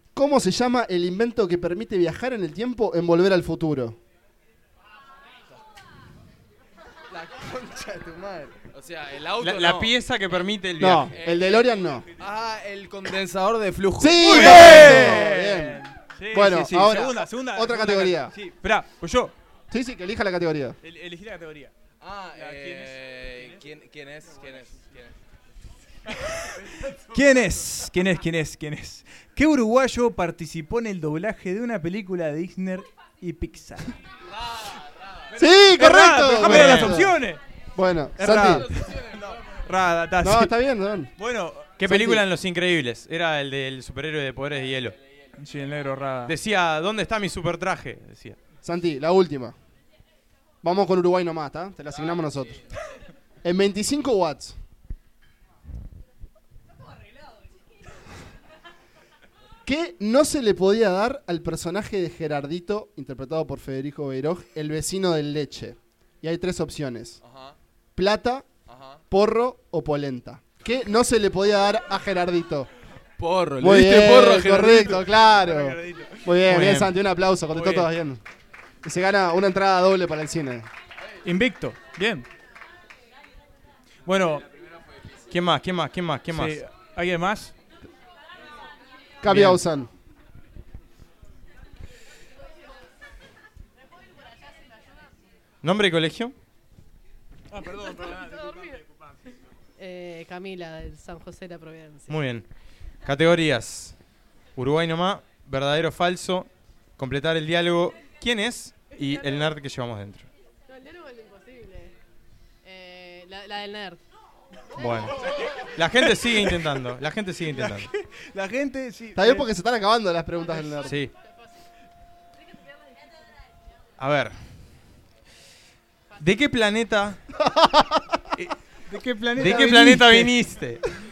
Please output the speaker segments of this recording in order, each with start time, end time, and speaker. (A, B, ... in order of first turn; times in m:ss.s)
0:00.1-0:04.0 A
0:07.1-0:10.0 B
0:09.4-0:11.1 C
0:10.8-0:12.1 A
0:11.1-0:15.0 B
0:14.0-0:18.3 A
0:14.2-0:19.3 D
0:14.6-0:14.9 C
0:19.7-0:20.8 A
0:20.8-0:21.7 D
0:22.0-0:25.2 B
0:22.3-0:23.6 D
0:24.3-0:24.7 D
0:26.1-0:33.9 D
0:35.3-0:37.2 A
0:35.4-0:37.4 D
0:36.3-0:37.0 C
0:37.7-0:38.6 A
0:38.2-0:40.5 D
0:38.7-0:39.4 B
0:40.2-0:41.1 A
0:41.2-0:41.7 D
0:41.8-0:45.0 C
0:41.8-0:42.2 A
0:45.4-0:46.3 D
0:46.2-0:48.4 C
0:48.6-0:49.5 A
0:50.6-0:52.6 A
0:53.4-0:54.6 A
0:59.6-1:07.2 A
1:07.2-1:07.6 B
1:08.0-1:08.5 A
1:08.6-1:09.0 B
1:09.1-1:12.7 A
1:13.2-1:15.0 B
1:13.6-1:18.2 A
1:14.6-1:16.4 D
1:16.5-1:16.9 C
1:17.5-1:17.9 D
1:18.8-1:20.7 A
1:21.2-1:22.3 D
1:24.0-1:24.4 D
1:24.5-1:25.2 B
1:25.3-1:26.6 C
1:26.3-1:27.5 D
1:29.2-1:29.9 A
1:29.3-1:29.6 D
1:35.6-1:36.3 C
1:37.5-1:39.3 D
1:37.9-1:38.8 E
1:39.8-1:42.1 E
1:42.1-1:42.5 C
1:43.0-1:43.9 C
1:44.6-1:50.3 C
1:50.7-1:51.9 E
1:52.6-1:54.0 E
1:54.8-1:57.9 C
1:54.8-1:55.5 E
1:56.1-1:56.5 D
1:57.5-1:59.5 D
1:59.1-2:01.0 A
2:00.8-2:01.1 C
2:04.0-2:04.5 C
2:06.2-2:07.2 C
2:07.4-2:08.2 A
2:08.8-2:10.3 D
2:09.4-2:10.9 C